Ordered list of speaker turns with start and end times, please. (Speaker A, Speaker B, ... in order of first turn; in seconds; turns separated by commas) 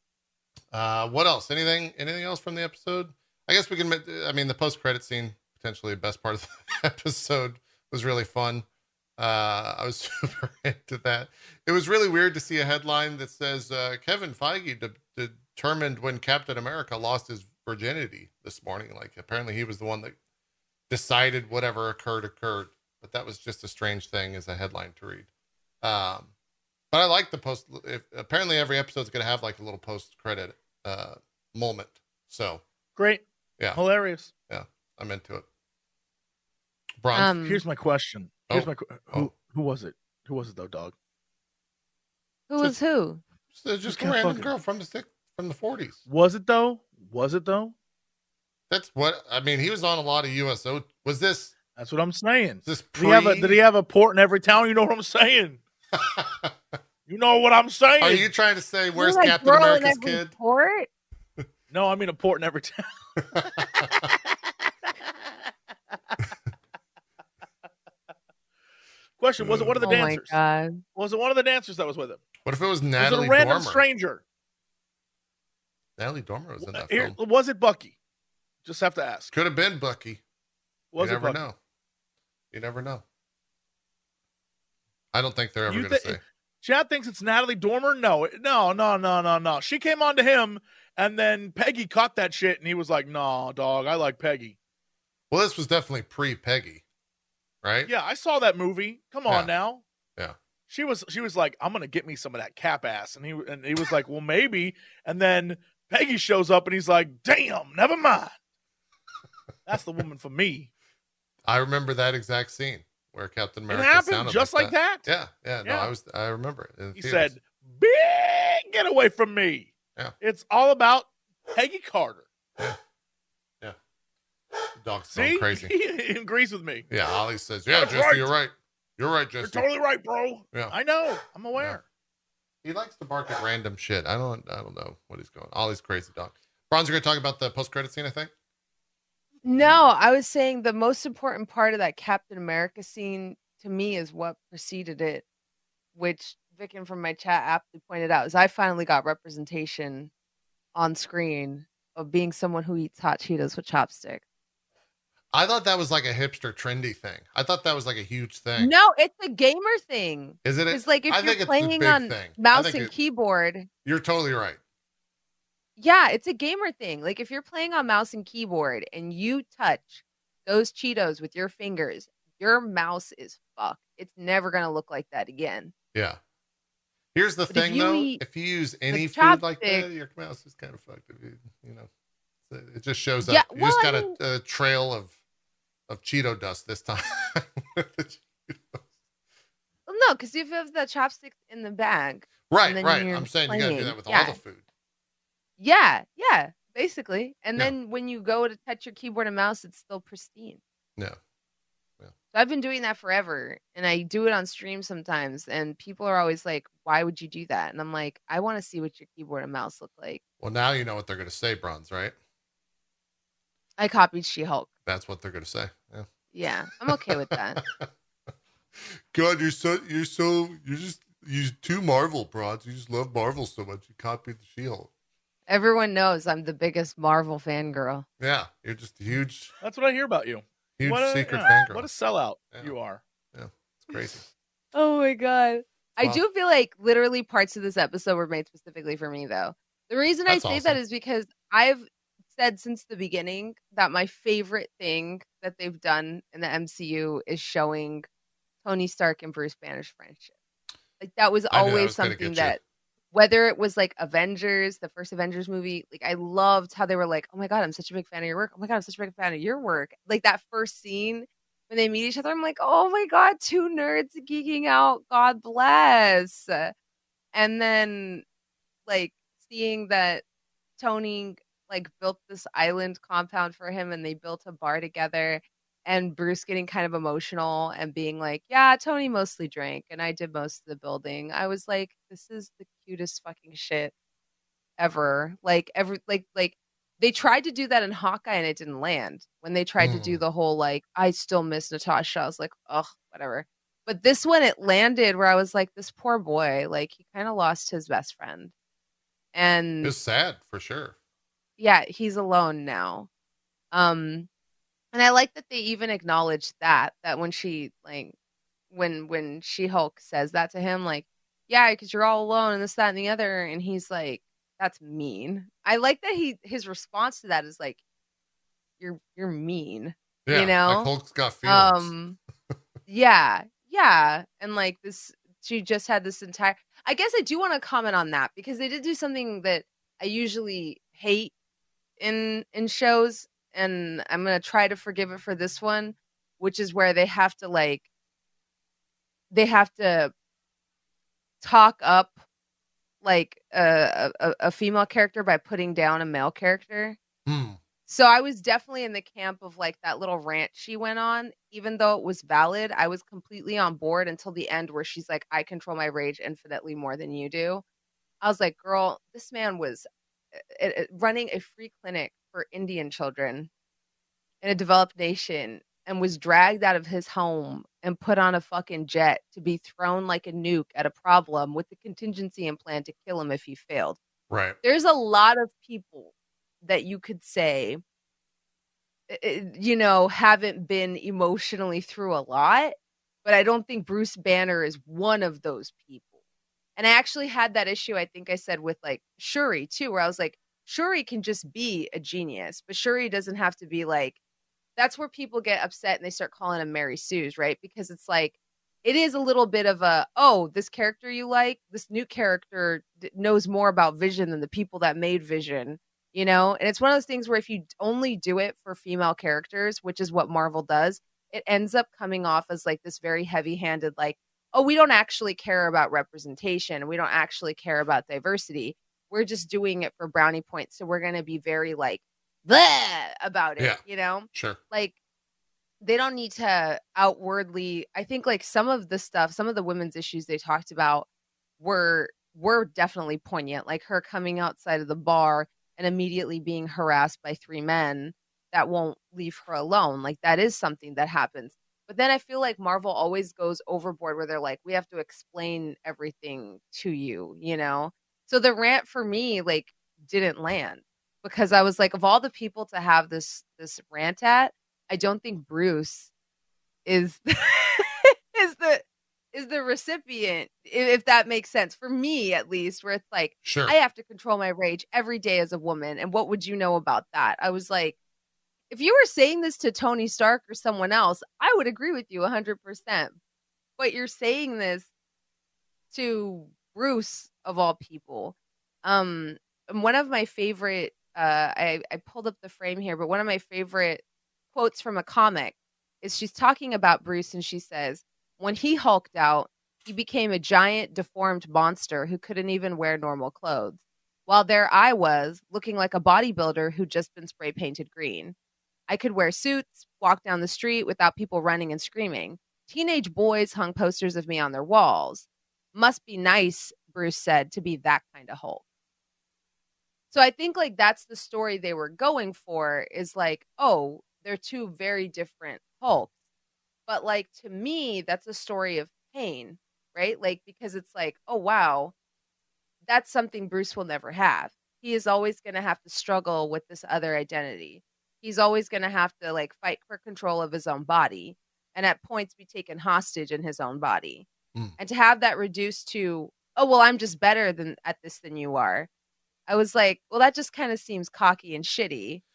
Speaker A: 0.7-8.7, Speaker A: 9.2-20.2, Speaker A: 20.9-25.3, Speaker A: 25.8-26.3, Speaker A: 26.9-32.6, Speaker B: 33.0-33.2, Speaker B: 33.7-34.3, Speaker A: 34.5-35.5, Speaker A: 37.0-37.4, Speaker C: 37.1-37.6, Speaker B: 37.4-40.9, Speaker A: 38.5-39.3, Speaker C: 42.5-43.2, Speaker A: 43.5-46.0, Speaker B: 43.9-44.5, Speaker B: 46.1-47.7, Speaker A: 48.7-51.5, Speaker B: 51.8-55.6, Speaker A: 52.6-53.6, Speaker A: 55.9-56.5, Speaker B: 57.1-58.3, Speaker A: 58.0-60.3, Speaker C: 59.0-60.9, Speaker B: 61.7-64.3, Speaker A: 63.3-64.1, Speaker B: 69.2-70.4, Speaker A: 69.4-69.8, Speaker C: 69.8-70.8, Speaker B: 71.0-72.2, Speaker A: 72.5-73.8, Speaker B: 73.0-74.2, Speaker A: 76.0-77.2, Speaker B: 76.7-78.0, Speaker B: 78.7-79.3, Speaker A: 79.3-80.2, Speaker B: 80.9-81.4, Speaker A: 81.0-81.6, Speaker A: 82.5-83.0, Speaker A: 85.1-86.2, Speaker B: 85.7-94.5, Speaker A: 95.3-96.8, Speaker A: 97.6-97.9, Speaker B: 97.9-99.8, Speaker B: 100.7-108.3, Speaker B: 109.7-110.7, Speaker A: 111.5-117.3, Speaker B: 113.7-115.1, Speaker B: 115.6-115.9, Speaker B: 117.0-122.3, Speaker A: 124.8-125.7, Speaker B: 125.1-126.9, Speaker A: 126.9-129.7, Speaker B: 127.7-128.3, Speaker B: 129.4-131.8, Speaker A: 132.6-138.3, Speaker C: 139.4-145.2, Speaker C: 145.9-150.1, Speaker C: 150.8-154.2, Speaker A: 155.3-158.7, Speaker C: 158.6-163.7, Speaker A: 160.4-162.9, Speaker A: 163.8-164.6, Speaker C: 165.8-175.7, Speaker A: 175.9-176.2, Speaker A: 177.2-181.9, Speaker C: 177.5-178.2, Speaker C: 178.9-179.9, Speaker A: 182.5-185.2, Speaker C: 183.2-184.2, Speaker A: 185.9-188.9, Speaker C: 189.9-194.4, Speaker A: 192.5-194.6, Speaker C: 195.6-200.6, Speaker C: 202.3-210.2, Speaker A: 210.4-212.2, Speaker C: 213.8-214.7, Speaker A: 214.9-216.1, Speaker C: 216.3-217.6, Speaker A: 216.9-217.9, Speaker A: 218.8-224.9, Speaker C: 225.5-228.1, Speaker A: 228.2-229.5, Speaker B: 229.6-233.0, Speaker A: 230.8-231.9, Speaker A: 233.3-234.3, Speaker C: 234.7-248.1, Speaker A: 240.3-240.8, Speaker C: 248.6-250.3, Speaker C: 251.0-252.6, Speaker A: 251.5-252.6, Speaker C: 253.1-266.7, Speaker C: 267.3-268.2, Speaker C: 268.9-270.2, Speaker C: 270.8-283.9, Speaker C: 284.8-298.5, Speaker A: 289.8-290.2, Speaker C: 299.3-299.9, Speaker A: 299.8-300.9, Speaker C: 301.6-303.1, Speaker C: 303.7-304.3, Speaker C: 304.9-308.1, Speaker C: 308.7-317.8, Speaker C: 318.8-320.9, Speaker A: 320.3-321.9, Speaker C: 321.5-322.2, Speaker C: 322.9-331.3, Speaker C: 332.0-337.9, Speaker C: 339.3-340.1, Speaker C: 341.4-342.2, Speaker C: 343.0-347.0, Speaker A: 347.3-347.6, Speaker C: 347.9-357.6, Speaker C: 358.2-363.5, Speaker C: 364.4-374.0, Speaker A: 374.3-374.6, Speaker C: 374.6-377.8, Speaker C: 379.1-386.1, Speaker C: 386.8-394.2, Speaker C: 394.8-424.9, Speaker A: 424.3-424.6, Speaker C: 425.8-431.1, Speaker C: 431.6-456.1, Speaker C: 456.9-468.0, Speaker A: 463.4-463.7, Speaker C: 468.7-473.1, Speaker C: 473.8-474.9, Speaker C: 475.9-498.4, Speaker C: 498.9-508.6, Speaker C: 510.1-516.1, Speaker C: 516.9-521.9, Speaker C: 522.9-534.3, Speaker C: 534.8-538.9, Speaker C: 539.5-542.2